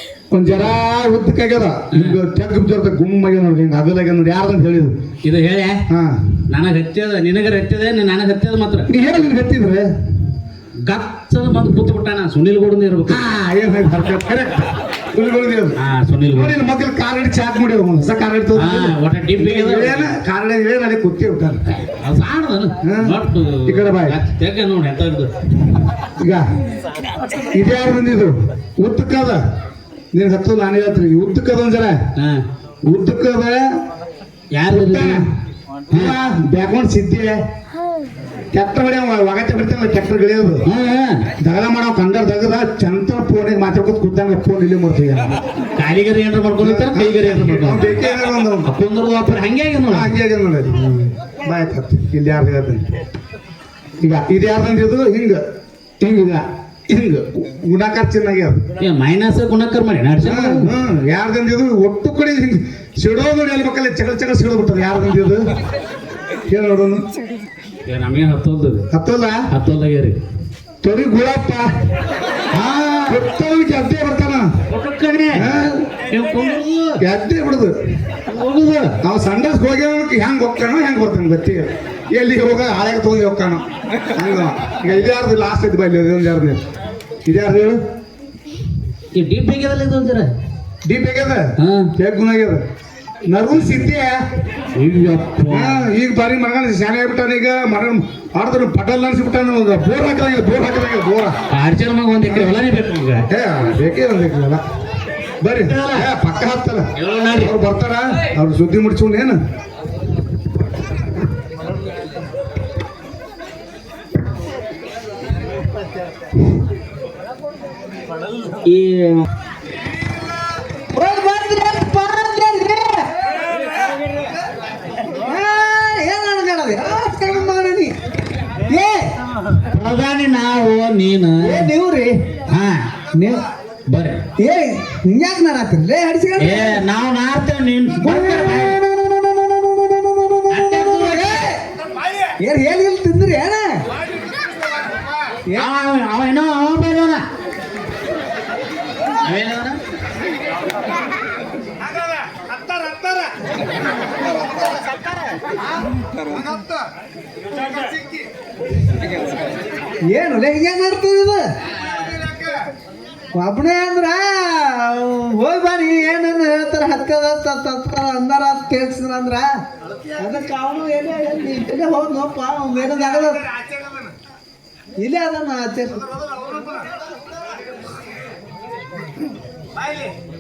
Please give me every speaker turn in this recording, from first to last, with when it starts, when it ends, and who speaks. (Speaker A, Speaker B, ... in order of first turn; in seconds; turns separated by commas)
Speaker A: 0.3-5.0, Speaker B: 1.9-2.2, Speaker B: 5.2-5.8, Speaker A: 5.9-6.2, Speaker B: 6.5-8.9, Speaker A: 8.9-9.9, Speaker B: 10.8-13.3, Speaker A: 13.1-15.8, Speaker B: 15.8-16.6, Speaker A: 16.3-21.6, Speaker B: 18.6-20.1, Speaker B: 21.8-25.8, Speaker A: 22.8-24.2, Speaker A: 26.2-26.4, Speaker A: 27.5-29.4, Speaker A: 30.1-32.0, Speaker B: 32.2-32.4, Speaker A: 32.9-33.7, Speaker B: 34.5-35.3, Speaker A: 34.7-35.3, Speaker A: 35.9-37.4, Speaker A: 38.5-40.7, Speaker B: 40.7-41.3, Speaker A: 41.4-45.4, Speaker B: 45.8-48.0, Speaker A: 46.6-48.7, Speaker B: 48.7-50.1, Speaker A: 49.9-50.7, Speaker B: 50.7-51.1, Speaker A: 51.4-52.9, Speaker A: 54.0-55.4, Speaker A: 56.0-58.6, Speaker B: 58.8-60.7, Speaker A: 60.2-65.5, Speaker A: 66.5-67.1, Speaker B: 67.9-68.9, Speaker A: 68.9-69.4, Speaker B: 69.5-70.2, Speaker A: 70.8-71.7, Speaker A: 72.5-74.5, Speaker B: 74.7-75.6, Speaker A: 75.3-75.9, Speaker B: 76.1-77.0, Speaker A: 77.0-77.8, Speaker B: 78.3-79.0, Speaker A: 79.0-86.6, Speaker A: 87.2-87.8, Speaker B: 89.2-90.3, Speaker A: 90.8-92.6, Speaker B: 91.6-91.9, Speaker A: 93.3-94.2, Speaker B: 94.8-95.9, Speaker A: 95.5-101.4, Speaker B: 101.5-103.3, Speaker A: 102.3-102.6, Speaker A: 103.3-104.6, Speaker A: 105.4-109.4, Speaker B: 105.6-106.1, Speaker B: 107.0-107.5, Speaker B: 118.7-119.3, Speaker C: 120.9-123.1, Speaker C: 125.2-127.9, Speaker C: 128.7-129.1, Speaker B: 129.7-131.7, Speaker C: 131.4-132.2, Speaker B: 132.5-132.9, Speaker C: 133.1-133.4, Speaker B: 133.9-134.2, Speaker C: 134.4-136.8, Speaker B: 136.4-138.8, Speaker C: 138.0-141.6, Speaker B: 140.5-141.5, Speaker C: 142.4-143.8, Speaker A: 144.1-145.2, Speaker B: 145.6-147.2, Speaker B: 149.2-149.8, Speaker A: 151.8-153.4, Speaker A: 154.2-155.0, Speaker A: 156.2-156.9, Speaker A: 157.5-158.3, Speaker C: 160.1-161.5, Speaker A: 161.8-162.6, Speaker C: 163.4-169.5, Speaker A: 169.9-170.2, Speaker C: 170.2-173.4, Speaker A: 172.8-174.2, Speaker C: 175.0-176.0, Speaker A: 175.9-176.9